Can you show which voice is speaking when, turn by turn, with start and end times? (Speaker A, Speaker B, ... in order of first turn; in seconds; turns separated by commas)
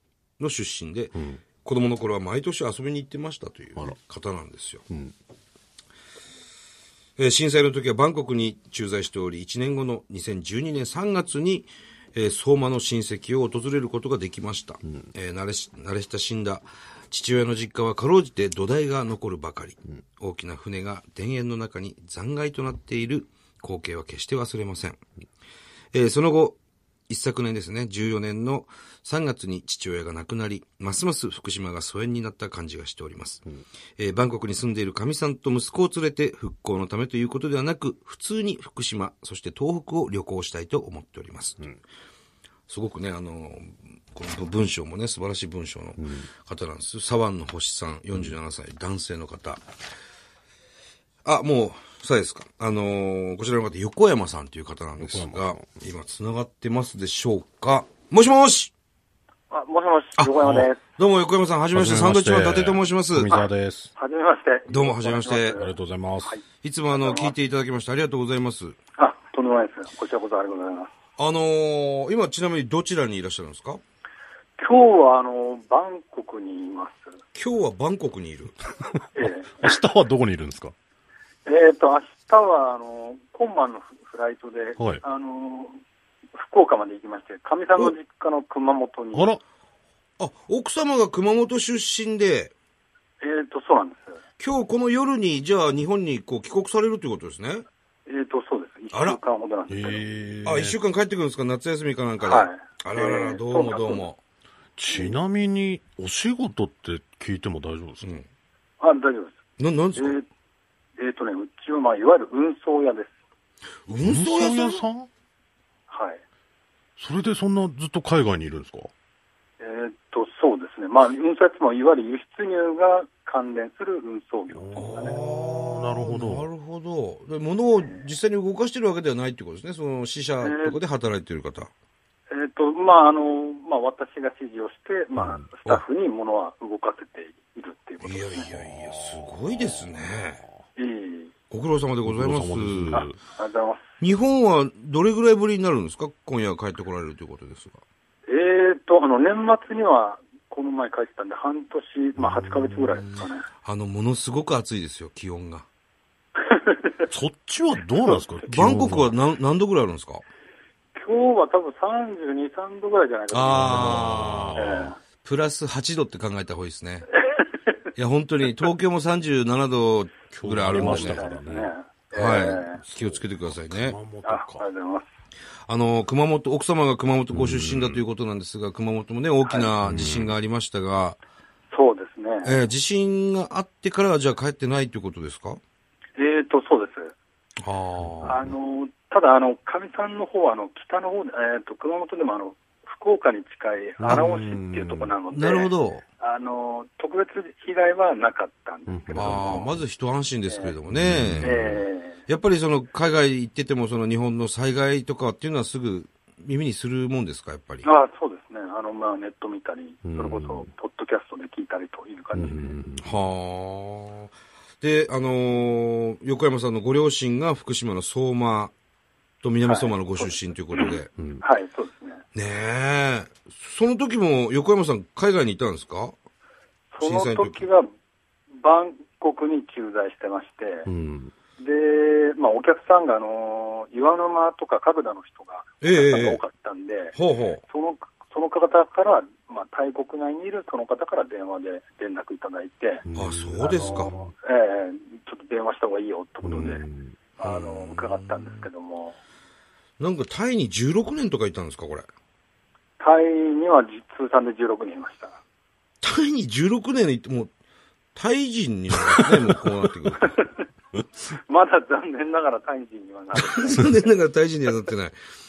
Speaker A: 0.4-4.8, Speaker B: 1.1-1.4, Speaker B: 4.9-5.2, Speaker A: 7.2-25.0, Speaker A: 25.9-26.6, Speaker A: 27.1-33.4, Speaker A: 34.0-41.6, Speaker A: 42.7-49.6, Speaker B: 46.0-46.3, Speaker A: 51.2-58.7, Speaker B: 55.0-55.7, Speaker C: 59.5-60.8, Speaker B: 60.4-60.7, Speaker A: 60.9-63.3, Speaker B: 61.7-63.9, Speaker C: 63.3-67.3, Speaker A: 64.7-65.6, Speaker B: 65.5-66.4, Speaker A: 66.6-68.8, Speaker C: 69.0-70.9, Speaker A: 71.2-73.8, Speaker C: 74.6-77.1, Speaker A: 77.3-78.6, Speaker B: 79.0-80.7, Speaker C: 79.2-79.8, Speaker C: 81.5-85.8, Speaker C: 86.3-89.3, Speaker B: 89.1-89.4, Speaker A: 90.2-92.5, Speaker C: 93.2-94.2, Speaker A: 94.4-97.7, Speaker C: 98.1-100.0, Speaker A: 98.9-99.2, Speaker B: 99.7-100.8, Speaker A: 100.5-104.2, Speaker C: 102.2-104.1, Speaker B: 104.8-108.2, Speaker A: 108.0-108.3, Speaker C: 108.8-109.4, Speaker A: 109.6-110.2, Speaker C: 110.0-110.2, Speaker C: 111.0-113.1, Speaker A: 113.9-114.8, Speaker B: 114.0-115.1, Speaker C: 115.9-116.2, Speaker B: 117.0-118.9, Speaker C: 119.6-125.2, Speaker B: 124.5-126.5, Speaker A: 124.8-131.7, Speaker C: 130.4-130.8, Speaker C: 132.3-138.5, Speaker B: 135.2-135.5, Speaker A: 138.0-140.4, Speaker B: 138.5-140.0, Speaker C: 140.8-141.3, Speaker A: 141.5-143.1, Speaker B: 142.1-143.2, Speaker C: 142.9-143.8, Speaker A: 144.0-147.8, Speaker C: 148.3-153.5, Speaker B: 152.2-153.2, Speaker A: 153.6-155.7, Speaker C: 156.4-157.1, Speaker B: 157.1-159.1, Speaker A: 158.5-160.2, Speaker C: 160.9-165.0, Speaker A: 163.3-164.6, Speaker B: 163.5-165.0, Speaker A: 165.2-167.1, Speaker A: 167.9-171.3, Speaker B: 170.3-171.7, Speaker C: 170.7-172.8, Speaker A: 172.1-174.0, Speaker B: 172.8-174.7, Speaker C: 174.2-175.1, Speaker A: 175.7-181.2, Speaker B: 177.3-178.0, Speaker C: 179.5-179.7, Speaker B: 179.8-180.3, Speaker C: 181.7-182.6, Speaker A: 182.4-185.6, Speaker C: 186.2-187.1, Speaker A: 187.6-188.4, Speaker B: 188.0-188.5, Speaker C: 188.2-199.7, Speaker B: 194.0-195.2, Speaker A: 195.3-196.1, Speaker B: 198.9-199.8, Speaker A: 199.2-201.6, Speaker C: 200.5-200.7, Speaker B: 200.9-201.8, Speaker C: 201.4-202.2, Speaker A: 202.3-207.9, Speaker C: 207.8-212.6, Speaker B: 210.1-210.7, Speaker B: 212.3-213.2, Speaker A: 213.0-218.7, Speaker A: 219.4-221.1, Speaker C: 219.7-222.2, Speaker B: 221.2-221.4, Speaker A: 222.3-226.2, Speaker C: 226.9-227.9, Speaker A: 227.0-227.7, Speaker C: 228.6-230.9, Speaker B: 230.9-231.3, Speaker C: 231.6-237.2, Speaker A: 235.8-236.4, Speaker A: 237.2-237.6, Speaker C: 237.7-243.1, Speaker B: 243.1-244.3, Speaker A: 243.2-244.2, Speaker C: 243.6-246.8, Speaker B: 246.4-247.2, Speaker C: 247.4-249.2, Speaker A: 247.4-248.7, Speaker A: 250.0-252.1, Speaker C: 253.0-255.4, Speaker A: 256.0-257.5, Speaker A: 258.1-260.4, Speaker B: 259.0-259.3, Speaker C: 260.2-260.6, Speaker C: 261.3-264.1, Speaker A: 263.4-265.2